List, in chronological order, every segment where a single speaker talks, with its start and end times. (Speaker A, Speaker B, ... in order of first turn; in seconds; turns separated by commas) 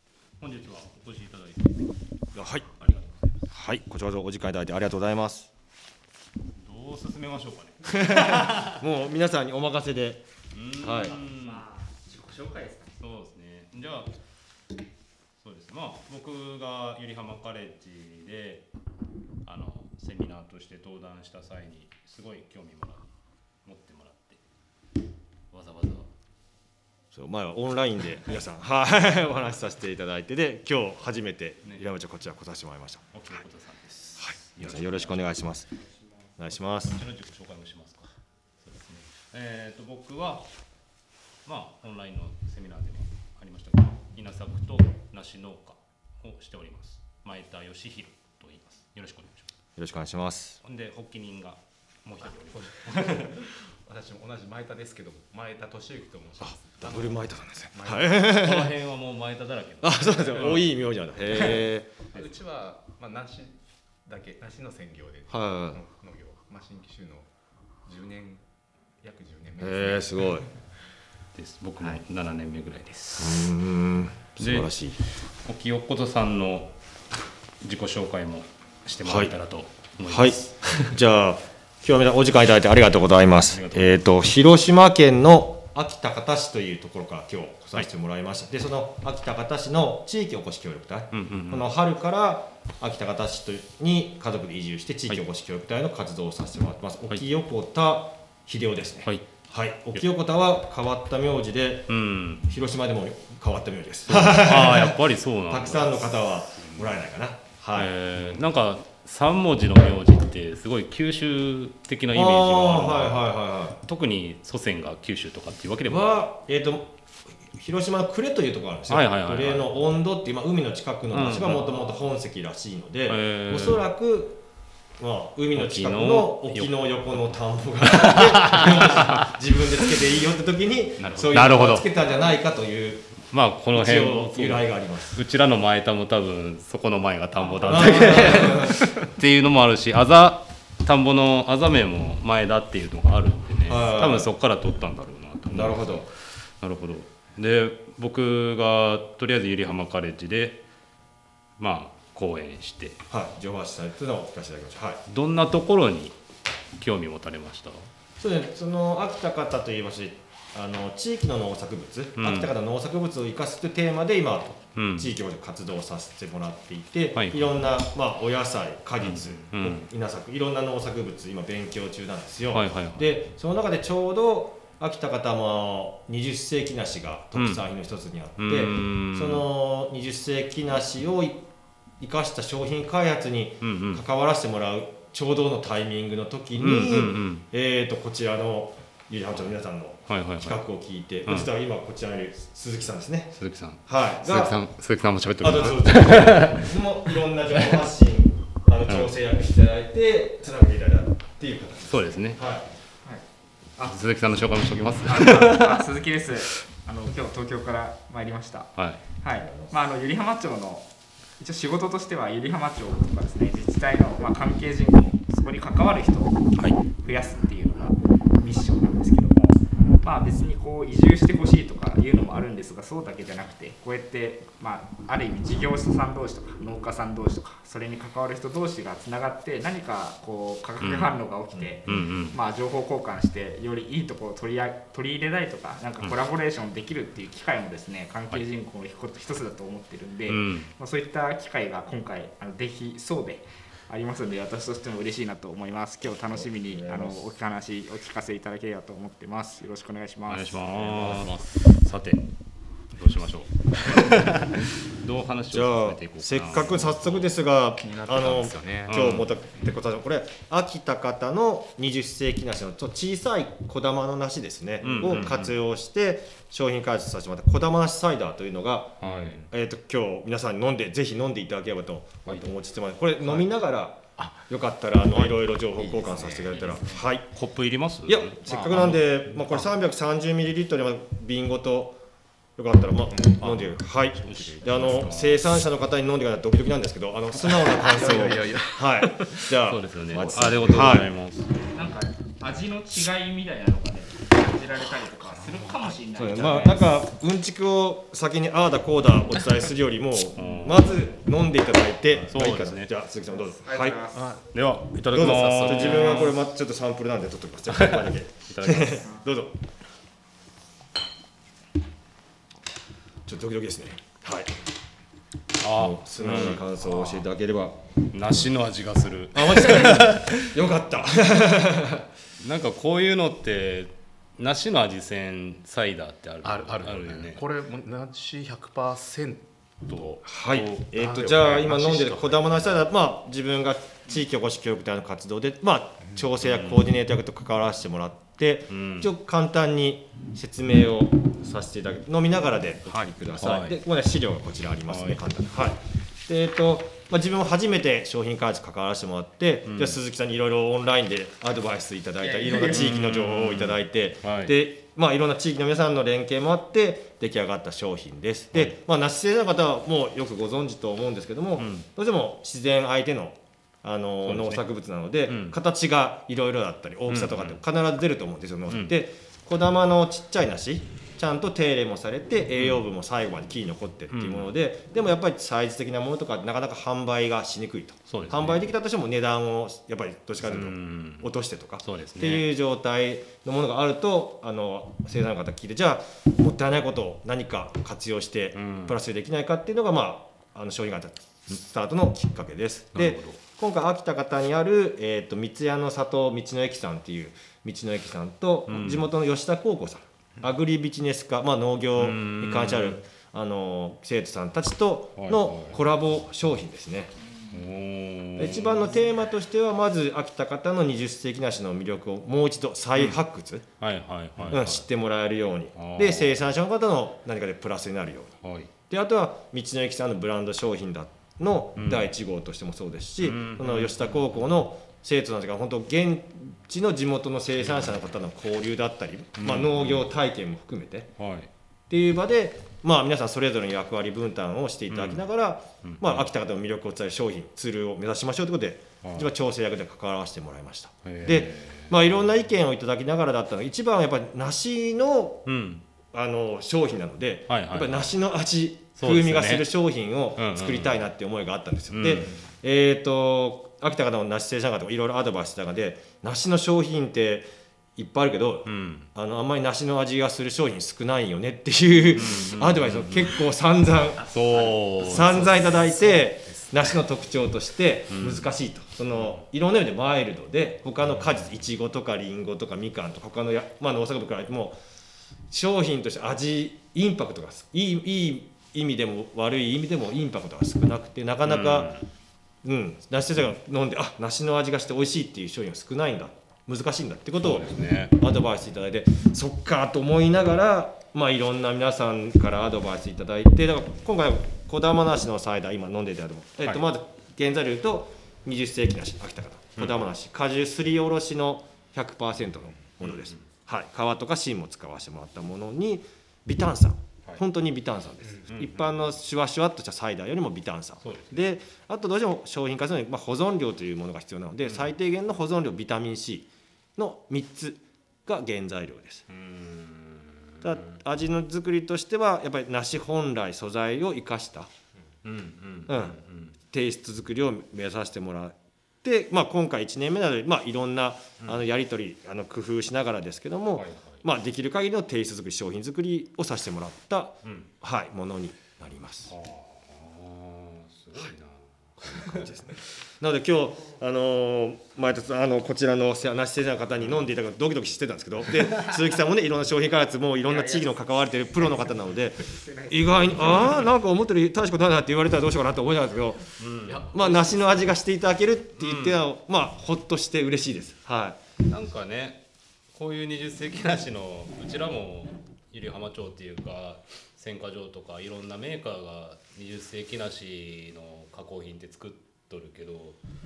Speaker A: 0.4-1.8, Speaker B: 2.3-2.7, Speaker A: 2.7-3.3, Speaker B: 3.5-5.5, Speaker A: 6.5-8.8, Speaker B: 7.9-10.2, Speaker A: 10.5-11.7, Speaker B: 10.8-11.2, Speaker C: 11.2-12.9, Speaker A: 13.0-14.1, Speaker A: 15.4-18.6, Speaker A: 19.4-23.1, Speaker A: 23.6-24.4, Speaker A: 25.5-26.1, Speaker B: 27.1-33.1, Speaker A: 33.1-35.3, Speaker B: 34.2-35.7, Speaker B: 36.4-37.0, Speaker A: 36.7-38.1, Speaker A: 38.6-40.5, Speaker A: 41.4-49.5, Speaker B: 49.8-50.6, Speaker A: 50.6-53.4, Speaker D: 52.6-58.3, Speaker B: 56.4-58.8, Speaker A: 58.3-60.8, Speaker B: 59.8-62.0, Speaker D: 61.6-67.3, Speaker B: 65.3-65.8, Speaker D: 67.8-68.4, Speaker D: 69.0-70.5, Speaker B: 69.6-70.5, Speaker A: 71.3-73.5, Speaker B: 73.2-75.0, Speaker A: 74.4-74.8, Speaker A: 75.4-76.7, Speaker A: 77.6-81.0, Speaker B: 79.0-79.3, Speaker B: 80.0-101.9, Speaker A: 83.5-84.0, Speaker A: 91.1-91.7, Speaker A: 101.9-102.5, Speaker B: 102.5-107.9, Speaker A: 104.1-106.3, Speaker A: 107.7-116.2, Speaker B: 112.1-113.8, Speaker B: 115.8-116.9, Speaker B: 117.5-124.4, Speaker A: 118.9-119.8, Speaker A: 121.1-122.0, Speaker A: 123.1-123.9, Speaker B: 125.0-133.2, Speaker A: 125.5-129.3, Speaker D: 131.0-131.6, Speaker A: 131.3-131.9, Speaker A: 133.2-150.6, Speaker B: 133.7-135.2, Speaker D: 137.5-138.8, Speaker B: 137.6-138.9, Speaker B: 143.7-144.3, Speaker B: 145.5-146.1, Speaker A: 151.6-153.0, Speaker B: 153.1-155.0, Speaker A: 155.1-156.2, Speaker A: 156.8-157.9, Speaker B: 158.2-181.4, Speaker A: 162.2-162.5, Speaker A: 164.7-165.1, Speaker A: 167.1-167.5, Speaker A: 169.0-169.9, Speaker A: 172.5-173.1, Speaker A: 177.3-177.6, Speaker A: 178.4-179.4, Speaker B: 182.0-193.3, Speaker A: 183.6-184.0, Speaker A: 186.6-187.4, Speaker A: 190.1-190.6, Speaker A: 193.3-196.7, Speaker B: 193.9-194.5, Speaker B: 195.4-202.7, Speaker A: 197.5-197.8, Speaker A: 198.9-199.1, Speaker A: 201.9-202.4, Speaker A: 203.8-205.9, Speaker C: 205.0-210.9, Speaker A: 208.8-209.0, Speaker B: 209.3-209.7, Speaker C: 211.4-216.4, Speaker C: 217.0-250.6, Speaker A: 230.8-231.2, Speaker B: 231.5-231.9, Speaker A: 231.8-232.4, Speaker A: 240.2-240.7, Speaker B: 246.0-247.3, Speaker A: 250.3-252.3, Speaker D: 250.7-251.6, Speaker A: 252.9-257.3, Speaker B: 255.5-277.3, Speaker D: 257.8-259.3, Speaker A: 258.9-259.3, Speaker A: 264.8-265.5, Speaker A: 269.0-269.4, Speaker D: 269.0-269.4, Speaker D: 273.2-273.5, Speaker D: 274.2-274.5, Speaker D: 275.1-277.0, Speaker A: 277.3-279.0, Speaker B: 278.1-282.0, Speaker D: 278.5-279.6, Speaker B: 282.6-291.1, Speaker D: 283.1-285.2, Speaker A: 283.4-285.5, Speaker D: 287.4-289.5, Speaker A: 289.6-291.8, Speaker C: 291.7-297.0, Speaker D: 295.2-296.0, Speaker B: 296.1-304.1, Speaker A: 300.4-300.9, Speaker D: 300.4-300.7, Speaker A: 302.1-302.9, Speaker C: 303.3-304.3, Speaker D: 304.1-304.5, Speaker A: 304.5-306.4, Speaker B: 305.1-309.5, Speaker D: 305.1-306.3, Speaker A: 307.7-309.1, Speaker B: 313.2-314.5, Speaker A: 315.6-317.2, Speaker B: 315.7-317.8, Speaker A: 318.1-320.5, Speaker B: 319.3-322.1, Speaker A: 322.4-327.4, Speaker D: 326.4-332.8, Speaker A: 329.9-330.8, Speaker B: 330.2-407.1, Speaker A: 336.4-336.9, Speaker A: 338.7-339.1, Speaker A: 342.9-343.8, Speaker A: 344.9-345.4, Speaker A: 349.6-350.0, Speaker A: 352.4-354.5, Speaker A: 361.6-361.9, Speaker A: 364.2-364.6, Speaker A: 365.3-365.6, Speaker A: 367.1-367.6, Speaker A: 368.7-369.0, Speaker A: 372.5-372.9, Speaker A: 374.1-374.5, Speaker A: 378.1-378.7, Speaker A: 380.4-381.3, Speaker A: 381.8-382.5, Speaker A: 388.5-388.9, Speaker A: 392.9-393.4, Speaker A: 398.7-399.1, Speaker A: 401.9-403.0, Speaker A: 405.2-405.8, Speaker A: 407.5-408.9, Speaker B: 408.4-413.6, Speaker A: 412.9-413.2, Speaker A: 413.8-414.8, Speaker B: 414.5-418.3, Speaker A: 415.8-416.3, Speaker A: 418.4-418.7, Speaker B: 418.9-431.1, Speaker A: 421.8-422.1, Speaker A: 423.2-424.2, Speaker A: 427.6-428.0, Speaker A: 429.4-430.1, Speaker A: 431.2-431.5, Speaker B: 431.9-445.4, Speaker A: 434.9-435.2, Speaker A: 435.8-436.3, Speaker A: 439.0-439.3, Speaker A: 441.0-442.0, Speaker A: 445.4-445.8, Speaker B: 446.1-464.4, Speaker A: 447.5-448.1, Speaker A: 448.9-449.7, Speaker A: 450.4-451.0, Speaker A: 451.9-452.4, Speaker A: 458.6-459.1, Speaker A: 462.1-463.4, Speaker A: 464.3-465.8, Speaker D: 464.4-466.8, Speaker B: 465.0-474.8, Speaker A: 468.1-468.5, Speaker A: 469.1-469.4, Speaker B: 475.5-481.9, Speaker A: 481.4-482.1, Speaker B: 482.6-519.2, Speaker A: 487.4-488.1, Speaker A: 499.8-500.0, Speaker A: 503.0-503.5, Speaker A: 508.5-508.9, Speaker A: 511.0-511.5, Speaker A: 514.6-514.9, Speaker A: 519.3-520.9, Speaker B: 520.6-524.7, Speaker A: 525.2-526.5, Speaker B: 525.9-526.2, Speaker B: 526.7-539.3, Speaker A: 533.7-534.2, Speaker A: 537.4-537.7, Speaker A: 539.3-542.5, Speaker B: 542.1-556.5, Speaker C: 550.4-551.0, Speaker C: 552.4-553.4, Speaker A: 553.4-553.9, Speaker A: 556.6-557.2, Speaker D: 556.9-558.0, Speaker B: 557.1-561.4, Speaker A: 558.8-559.2, Speaker A: 561.6-573.2